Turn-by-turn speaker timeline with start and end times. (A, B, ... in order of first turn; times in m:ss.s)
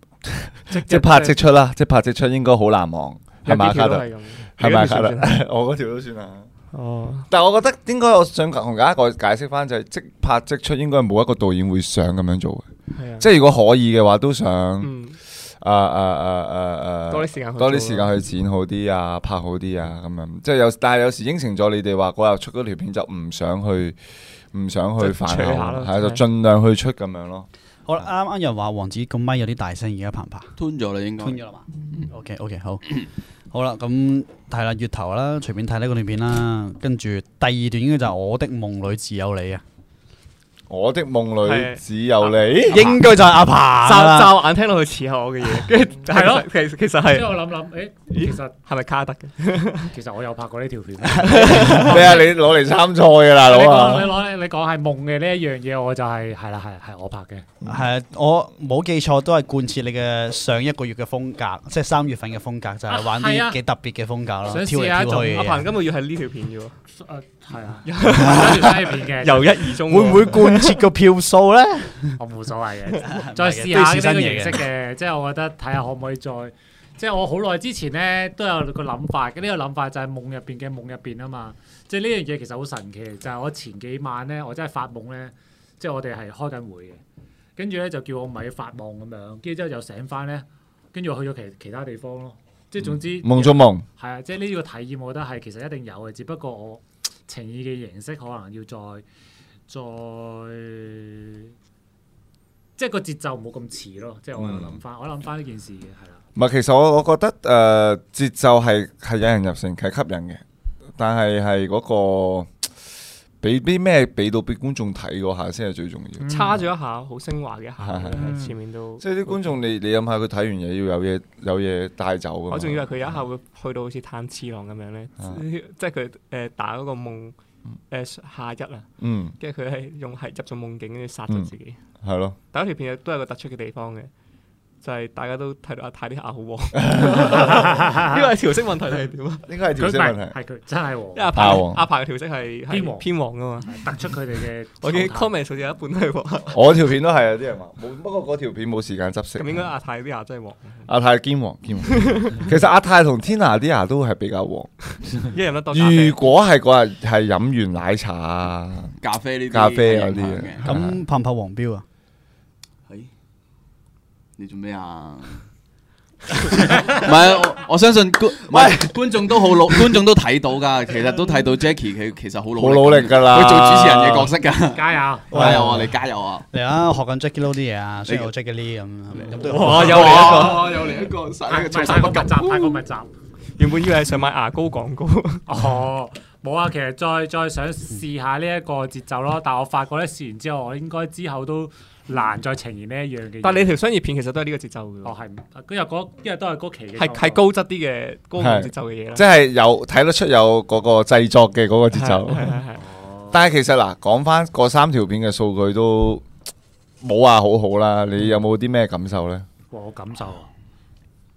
0:00.2-0:06.5 A
0:00.7-0:01.4 B
0:03.4-0:05.4 B
0:06.7-0:07.3 B
0:07.3-0:12.7 A
0:13.0-0:13.3 B
0:13.2-0:24.0 A
0:14.8-0:15.2 B
0:17.1-0:18.1 B
0:24.5-0:27.5 A
0:25.0-0:26.2 B
0:27.9-0:30.5 C
0:30.6-0:31.4 D
0:31.2-0:39.6 C
0:40.7-0:42.8 A
0:41.4-0:43.0 B
0:42.7-0:44.4 C
0:43.8-0:47.5 B
0:46.0-0:46.5 E
0:47.1-0:48.6 E
0:48.1-0:49.9 B
0:49.9-0:52.3 E
0:51.2-0:51.6 C
0:51.2-0:52.3 B
0:51.6-0:54.1 A
0:53.4-0:57.5 E
0:57.6-1:05.7 C
1:03.0-1:03.6 E
1:04.5-1:05.4 E
1:05.3-1:06.8 B
1:07.0-1:09.6 E
1:07.8-1:10.8 B
1:08.1-1:08.5 C
1:09.8-1:12.2 C
1:12.2-1:27.0 E
1:13.1-1:14.7 C
1:27.6-1:39.0 E
1:32.8-1:33.8 A
1:39.7-1:41.5 E
1:42.8-1:46.2 E
1:44.3-1:44.8 A
1:46.4-1:50.4 A
1:51.0-1:52.5 A
1:53.4-1:56.2 A
1:56.2-1:56.6 E
1:56.3-1:59.6 B
1:57.8-1:58.3 A
1:58.1-1:58.6 E
1:59.0-2:02.9 A
2:02.5-2:07.4 B
2:07.9-2:08.9 B
2:09.0-2:09.4 A
2:09.4-2:11.8 B
2:12.0-2:12.4 A
2:12.5-2:14.1 B
2:14.8-2:19.4 B
2:16.8-2:17.5 A
2:17.1-2:18.3 E
2:19.5-2:20.4 A
2:19.8-2:21.6 E
2:21.2-2:24.0 B
2:21.4-2:21.8 A
2:22.7-2:23.1 E
2:23.6-2:25.4 E
2:24.8-2:26.6 B
2:26.5-2:29.6 A
2:29.4-2:30.9 B
2:30.9-2:34.7 A
2:31.9-2:32.3 B
2:35.2-2:36.2 B
2:35.7-2:39.0 A
2:39.0-2:40.8 D
2:39.5-2:40.9 A
2:40.6-2:41.8 C
2:44.4-2:45.4 D
2:46.3-2:56.4 D
2:48.5-2:49.9 C
2:52.6-2:54.3 A
2:54.7-2:55.7 E
2:55.3-2:56.0 C
2:56.5-3:00.5 C
2:59.1-3:02.8 D
2:59.4-3:00.8 B
2:59.7-3:03.1 E
3:03.6-3:05.5 B
3:05.5-3:13.8 E
3:13.4-3:15.2 B
3:15.0-3:17.4 E
3:17.0-3:19.2 B
3:18.4-3:22.6 A
3:21.9-3:22.8 B
3:22.8-3:23.4 E
3:23.3-3:26.2 A
3:27.0-3:29.4 A
3:29.7-3:30.5 E